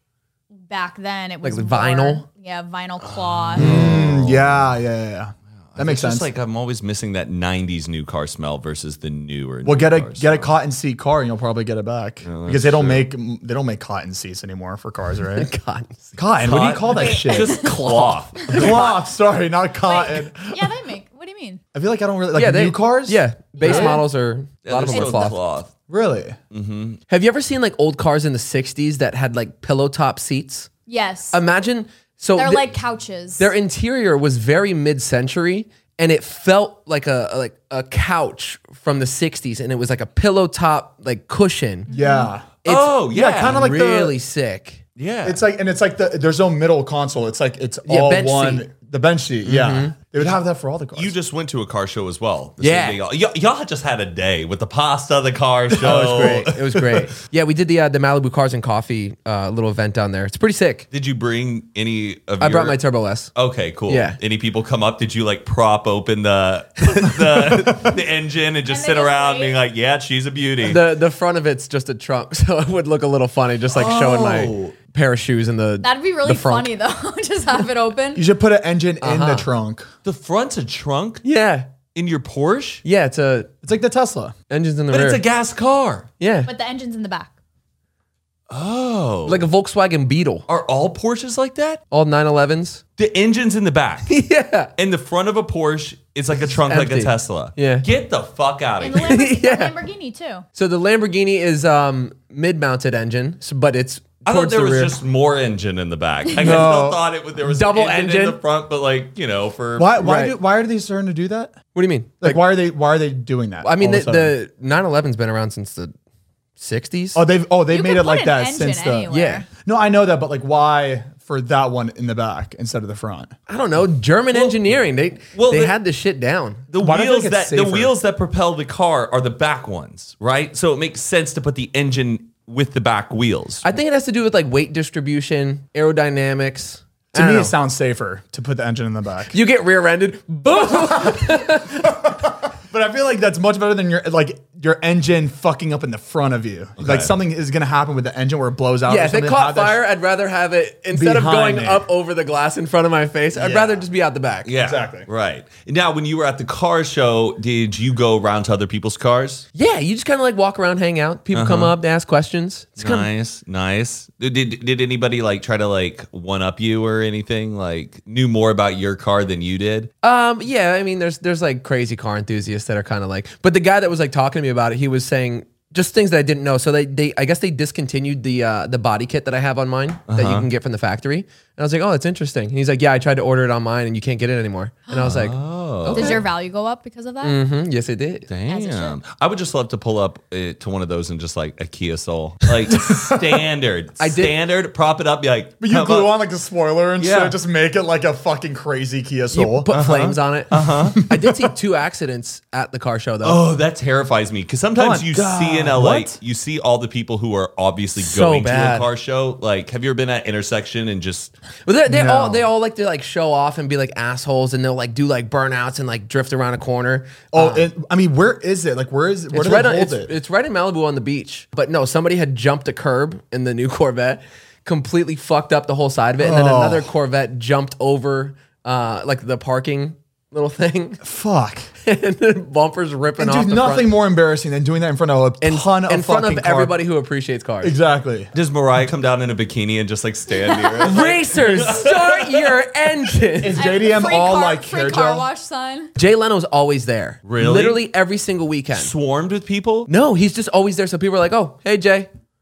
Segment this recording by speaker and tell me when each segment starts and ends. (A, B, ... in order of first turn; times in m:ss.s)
0:00.6-0:03.7 A
0:01.4-0:02.2 B
0:03.0-0:04.8 C
0:03.6-0:06.3 D
0:03.6-0:04.0 B
0:05.7-0:10.5 C
0:09.6-0:15.5 D
0:12.2-0:13.1 C
0:15.4-0:16.2 B
0:16.2-0:17.7 D
0:16.4-0:18.9 C
0:17.0-0:17.8 A
0:17.9-0:18.6 B
0:18.5-0:20.8 D
0:18.6-0:19.0 A
0:19.8-0:21.6 A
0:21.7-0:24.0 D
0:22.3-0:25.4 B
0:23.6-0:24.0 A
0:24.6-0:25.7 C
0:24.9-0:25.3 A
0:25.9-0:26.4 D
0:26.5-0:27.0 C
0:27.1-0:30.7 B
0:30.9-0:31.4 A
0:31.3-0:32.7 B
0:32.4-0:33.5 A
0:33.4-0:41.9 B
0:41.9-0:42.3 A
0:41.9-0:42.5 D
0:42.6-0:44.8 B
0:42.6-0:43.6 C
0:43.1-0:44.1 D
0:45.0-0:45.4 C
0:45.2-0:51.2 D
0:47.9-0:48.7 B
0:49.4-0:50.0 B
0:51.0-0:57.0 C
0:52.6-0:53.0 B
0:55.8-1:00.9 B
1:00.9-1:02.8 C
1:02.4-1:03.3 B
1:03.4-1:10.8 C
1:03.9-1:04.2 B
1:07.4-1:07.9 D
1:08.7-1:09.6 A
1:10.6-1:16.7 B
1:13.7-1:14.7 C
1:15.8-1:18.2 A
1:18.2-1:19.9 D
1:19.0-1:19.5 B
1:20.0-1:21.2 C
1:21.2-1:21.7 B
1:21.9-1:22.8 C
1:22.8-1:23.5 B
1:23.6-1:24.4 D
1:24.5-1:25.2 B
1:24.9-1:26.1 C
1:26.2-1:26.5 B
1:26.5-1:27.3 A
1:28.5-1:29.5 C
1:29.3-1:30.5 B
1:30.5-1:31.8 C
1:31.9-1:32.8 B
1:33.0-1:34.2 C
1:34.1-1:34.7 B
1:34.8-1:39.2 C
1:36.6-1:37.9 B
1:38.8-1:40.4 A
1:39.0-1:39.8 B
1:40.6-1:45.0 B
1:44.2-1:50.0 C
1:46.4-1:47.0 D
1:47.4-1:48.4 B
1:49.8-1:51.6 D
1:50.0-1:50.4 B
1:51.8-1:52.4 B
1:52.2-1:54.3 D
1:53.6-1:55.9 B
1:56.6-1:57.2 B
1:57.2-2:03.3 D
1:57.7-1:59.5 A
1:59.1-1:59.4 B
2:03.5-2:06.6 B
2:04.3-2:04.6 C
2:05.3-2:05.8 C
2:06.7-2:13.6 C
2:06.8-2:08.0 D
2:13.6-2:17.6 B
2:17.1-2:19.4 D
2:19.3-2:22.1 B
2:20.7-2:29.8 D
2:26.8-2:27.1 C
2:28.9-2:34.5 B
2:30.9-2:31.8 D
2:33.3-2:33.8 D
2:34.4-2:39.5 C
2:34.6-2:35.1 D
2:39.5-2:43.1 B
2:41.3-2:41.7 C
2:42.8-2:49.9 C
2:50.0-3:06.2 B
3:00.1-3:00.5 C
3:05.0-3:06.2 C
3:05.9-3:07.4 A
3:07.2-3:08.3 B
3:08.3-3:16.2 C
3:08.5-3:09.0 A
3:12.7-3:13.1 D
3:14.0-3:14.4 B
3:15.6-3:19.8 D
3:17.0-3:17.4 C
3:19.3-3:23.4 B
3:19.7-3:21.0 C
3:20.6-3:21.3 D
3:23.2-3:31.3 C
3:24.8-3:26.2 D
3:28.0-3:28.9 B
3:31.7-3:37.7 B
3:31.9-3:32.4 D
3:37.3-3:40.1 D
3:39.3-3:51.0 B
3:46.2-3:46.9 D
3:51.0-3:51.7 D
3:51.8-3:54.0 B
3:53.2-3:56.8 D
3:55.4-3:57.8 B
3:57.6-3:58.3 D
3:58.3-4:02.5 C
4:00.8-4:03.7 B
4:03.4-4:05.3 D
4:03.5-4:05.9 A
4:06.0-4:08.9 B
4:07.2-4:07.8 C
4:08.7-4:09.9 C
4:09.9-4:12.1 B